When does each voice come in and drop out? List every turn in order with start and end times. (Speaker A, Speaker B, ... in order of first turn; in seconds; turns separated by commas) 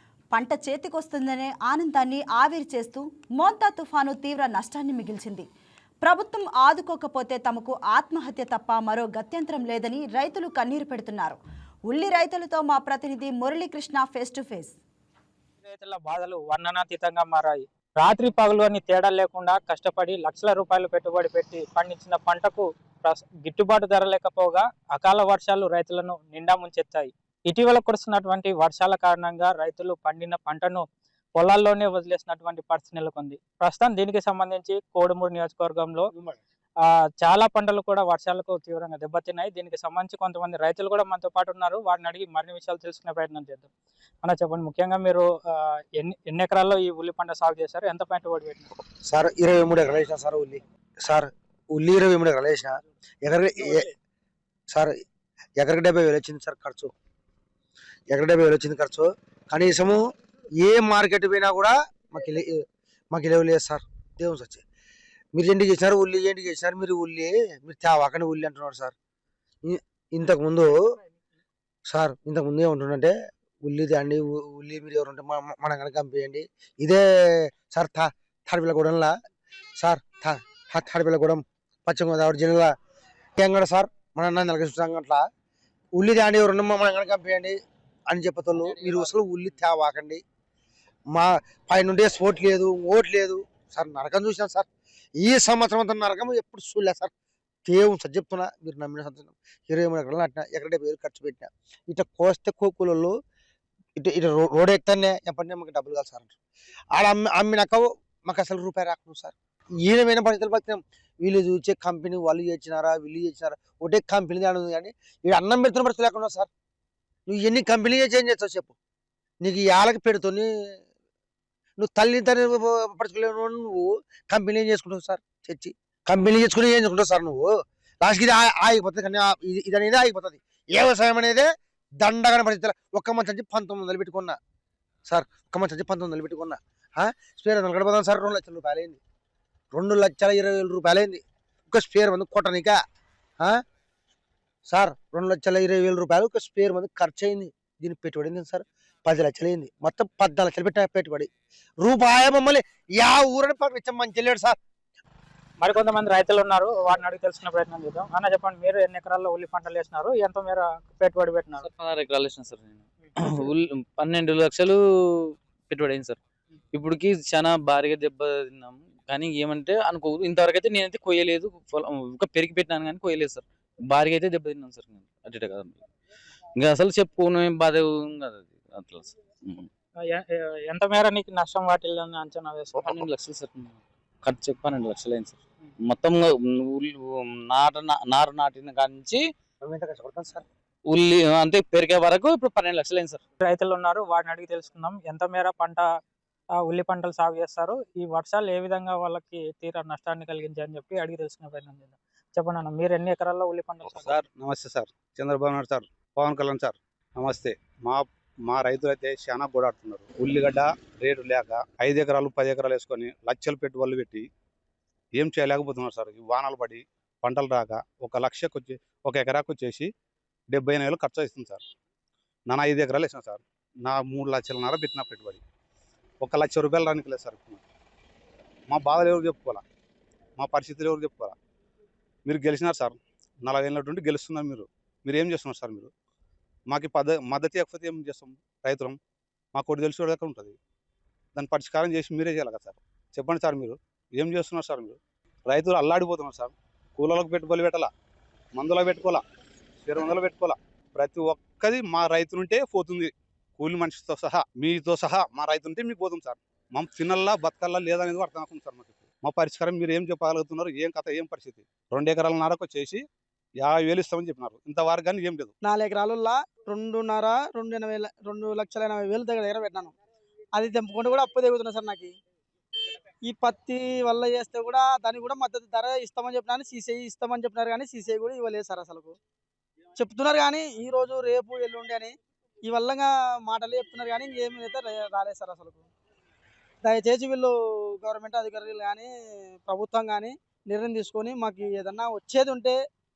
Speaker A: 0.3-5.5, Speaker A: 6.0-14.8, Speaker B: 15.6-30.8, Speaker B: 31.4-36.1, Speaker B: 37.2-43.7, Speaker B: 44.2-48.7, Speaker C: 49.0-53.9, Speaker C: 54.7-55.0, Speaker C: 55.6-56.9, Speaker C: 58.1-60.0, Speaker C: 60.6-64.6, Speaker C: 65.3-68.9, Speaker C: 69.6-70.8, Speaker C: 71.9-79.1, Speaker C: 79.8-82.7, Speaker C: 83.4-85.2, Speaker C: 86.0-87.6, Speaker C: 88.1-90.2, Speaker C: 91.1-94.7, Speaker C: 95.2-97.1, Speaker C: 97.7-103.2, Speaker C: 104.0-106.3, Speaker C: 106.9-109.3, Speaker C: 109.8-116.5, Speaker C: 117.3-118.7, Speaker C: 119.4-120.8, Speaker C: 121.8-131.5, Speaker C: 132.0-134.4, Speaker C: 135.1-139.0, Speaker C: 139.7-142.8, Speaker C: 144.7-151.3, Speaker C: 151.8-154.6, Speaker B: 155.6-161.7, Speaker D: 161.6-166.2, Speaker D: 166.7-175.8, Speaker D: 176.6-179.7, Speaker B: 180.1-183.0, Speaker D: 182.8-189.2, Speaker C: 189.6-190.4, Speaker D: 190.9-193.2, Speaker B: 193.4-195.9, Speaker B: 196.6-204.2, Speaker E: 203.9-214.2, Speaker E: 215.1-219.9, Speaker E: 220.5-221.6, Speaker E: 222.5-225.4, Speaker E: 226.2-227.6, Speaker E: 228.7-229.6, Speaker E: 230.4-231.3, Speaker E: 232.2-235.9, Speaker E: 236.7-239.0, Speaker E: 239.5-240.6, Speaker E: 241.3-247.9, Speaker E: 248.6-249.2, Speaker E: 249.8-263.0, Speaker E: 263.6-265.5, Speaker F: 265.6-269.9, Speaker F: 270.5-272.2, Speaker F: 273.2-279.2, Speaker F: 279.9-285.9, Speaker F: 286.8-292.8